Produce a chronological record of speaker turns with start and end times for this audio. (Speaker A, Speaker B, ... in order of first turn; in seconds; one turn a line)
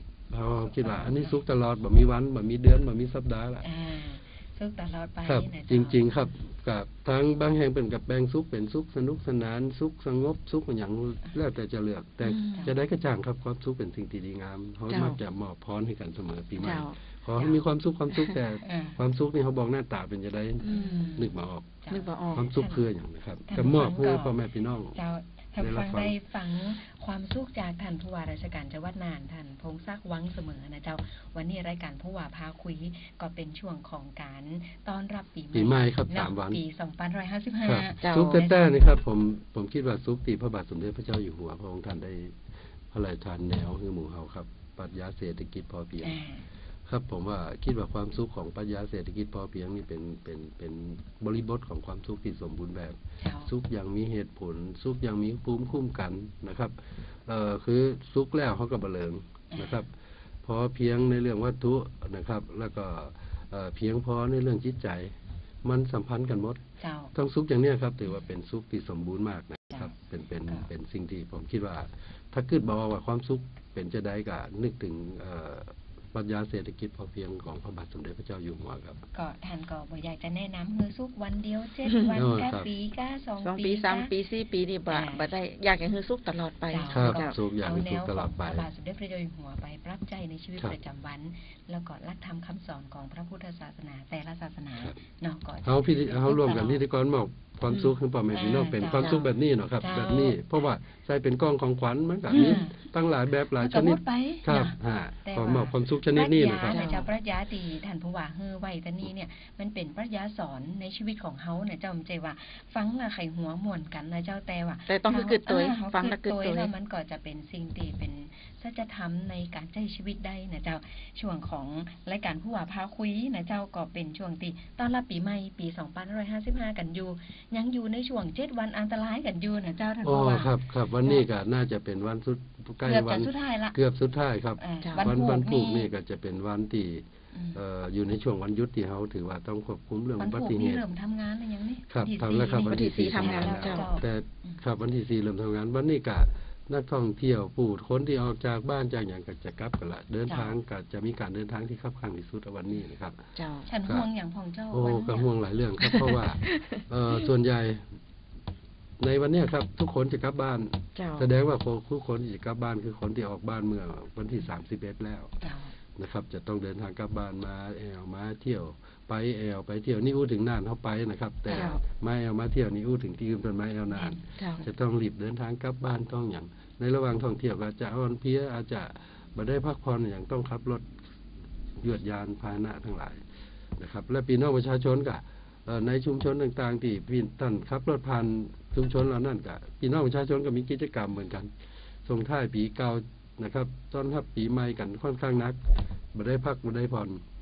Speaker A: 0.3-3.6
Speaker B: 0.6-1.4
Speaker B: 3.6-6.1
Speaker A: 5.2-21.8
Speaker C: 12.2-12.7
Speaker C: 14.9-15.2
Speaker C: 16.6-17.0
Speaker B: 17.4-17.6
Speaker B: 18.6-19.0
Speaker C: 20.6-21.3
Speaker B: 20.6-22.8
Speaker C: 21.9-22.5
Speaker A: 22.3-25.0
Speaker B: 23.5-24.4
Speaker B: 24.9-38.1
Speaker A: 25.6-26.1
Speaker A: 35.5-36.6
Speaker A: 37.6-46.2
Speaker C: 38.0-38.5
Speaker B: 46.0-46.5
Speaker A: 46.9-59.9
Speaker B: 53.2-53.5
Speaker B: 59.5-59.8
Speaker A: 60.4-66.6
Speaker B: 66.8-67.1
Speaker A: 67.1-79.0
Speaker B: 79.1-84.1
Speaker C: 81.9-82.2
Speaker A: 82.1-82.7
Speaker C: 83.4-87.4
Speaker B: 84.9-85.3
Speaker B: 86.7-96.8
Speaker A: 86.9-88.7
Speaker A: 95.6-106.9
Speaker C: 97.7-98.0
Speaker B: 98.3-99.2
Speaker C: 99.0-99.3
Speaker B: 99.8-100.5
Speaker C: 102.3-102.6
Speaker B: 102.3-102.9
Speaker B: 103.5-131.2
Speaker C: 106.7-107.1
Speaker C: 114.9-116.7
Speaker A: 130.0-140.8
Speaker B: 132.8-133.8
Speaker B: 134.6-135.9
Speaker C: 134.8-135.1
Speaker B: 137.3-137.6
Speaker B: 140.2-144.6
Speaker A: 141.9-153.3
Speaker C: 142.6-143.9
Speaker B: 150.3-150.6
Speaker C: 153.4-153.7
Speaker B: 153.7-155.3
Speaker A: 154.7-157.9
Speaker C: 155.8-156.8
Speaker A: 159.0-165.4
Speaker C: 160.9-161.3
Speaker B: 165.4-165.7
Speaker A: 166.0-180.9
Speaker C: 171.5-171.8
Speaker B: 171.5-171.8
Speaker B: 173.9-174.2
Speaker C: 174.4-174.7
Speaker A: 181.8-183.2
Speaker A: 183.8-191.5
Speaker A: 192.1-195.6
Speaker A: 196.1-197.2